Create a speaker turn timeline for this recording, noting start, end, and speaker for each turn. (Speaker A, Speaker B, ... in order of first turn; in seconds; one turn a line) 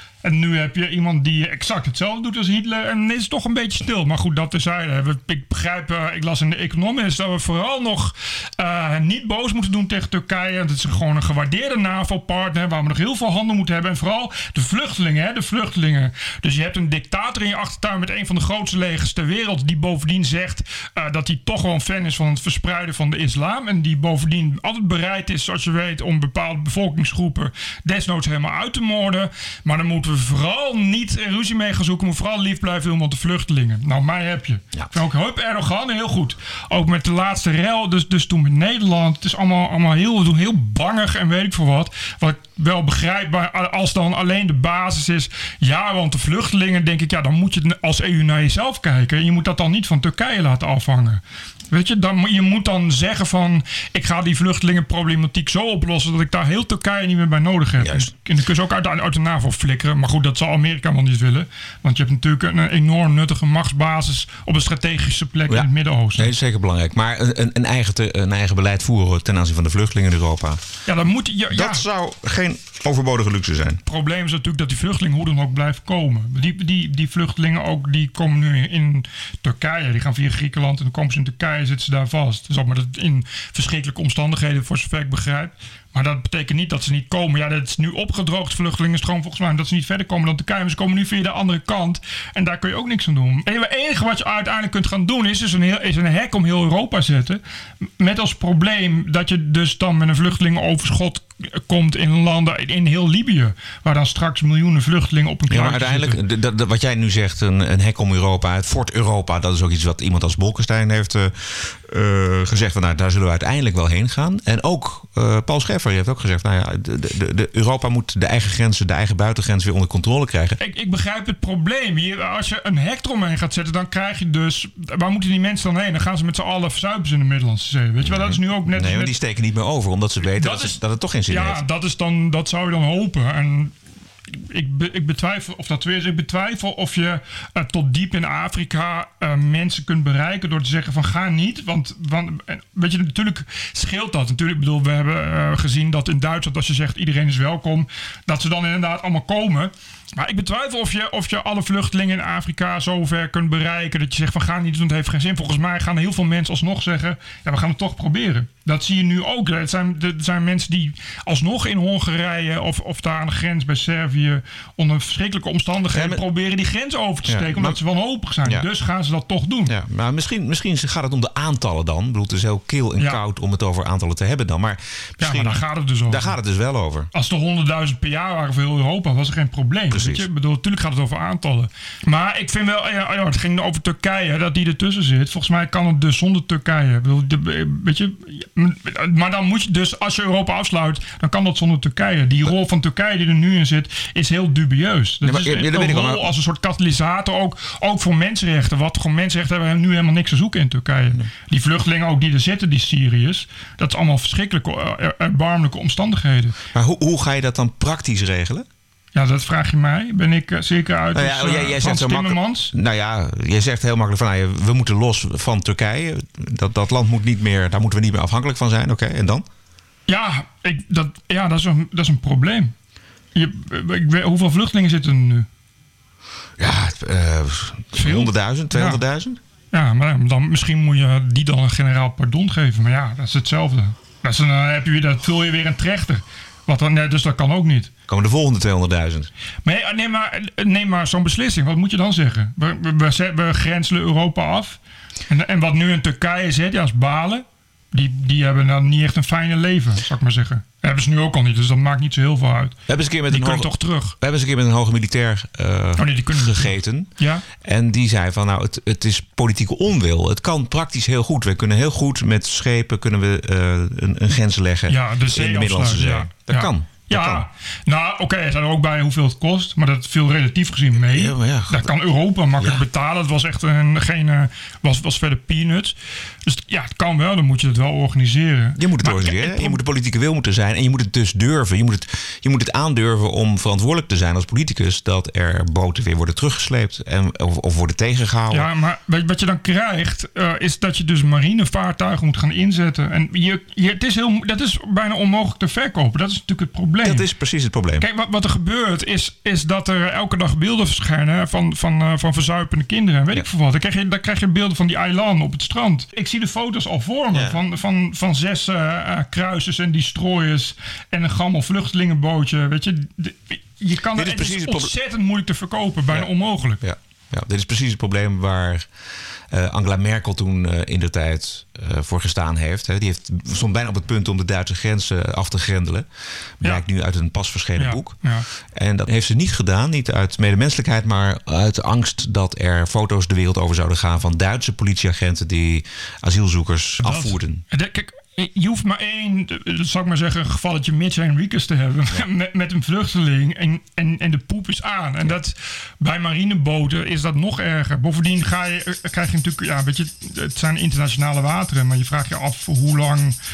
Speaker A: 0.2-66.3
Speaker B: 57.8-58.1
Speaker B: 65.5-70.6
Speaker A: 70.9-71.8
Speaker B: 71.5-73.8
Speaker A: 73.9-97.4
Speaker A: 98.0-106.2
Speaker B: 105.5-120.6
Speaker A: 120.6-129.1
Speaker B: 128.0-131.6
Speaker A: 130.3-130.8
Speaker A: 131.3-133.7
Speaker A: 134.3-169.8
Speaker B: 165.9-166.2
Speaker B: 167.3-167.8
Speaker B: 169.7-177.1
Speaker A: 175.2-176.3
Speaker A: 177.1-206.6
Speaker B: 179.9-180.3
Speaker B: 195.2-196.2
Speaker B: 206.7-208.7
Speaker A: 209.2-212.7
Speaker B: 211.1-219.4
Speaker A: 220.1-222.7
Speaker A: 223.3-225.5
Speaker B: 226.6-229.4
Speaker A: 228.0-229.0
Speaker A: 229.7-237.9
Speaker B: 238.1-239.3
Speaker A: 239.7-244.8
Speaker A: 245.3-252.8
Speaker B: 252.9-253.7
Speaker A: 253.3-254.2
Speaker B: 254.2-267.5
Speaker A: 256.0-257.5
Speaker A: 264.9-279.8
Speaker B: 271.1-271.9
Speaker B: 278.8-288.7
Speaker A: 288.5-297.2
Speaker B: 297.0-298.1
Speaker A: 298.0-316.8
Speaker B: 307.3-307.6
Speaker B: 314.1-314.9
Speaker B: 316.8-318.9
Speaker B: 319.5-326.1
Speaker B: 326.6-328.2
Speaker A: 327.8-328.5
Speaker B: 328.7-337.6
Speaker A: 337.0-353.4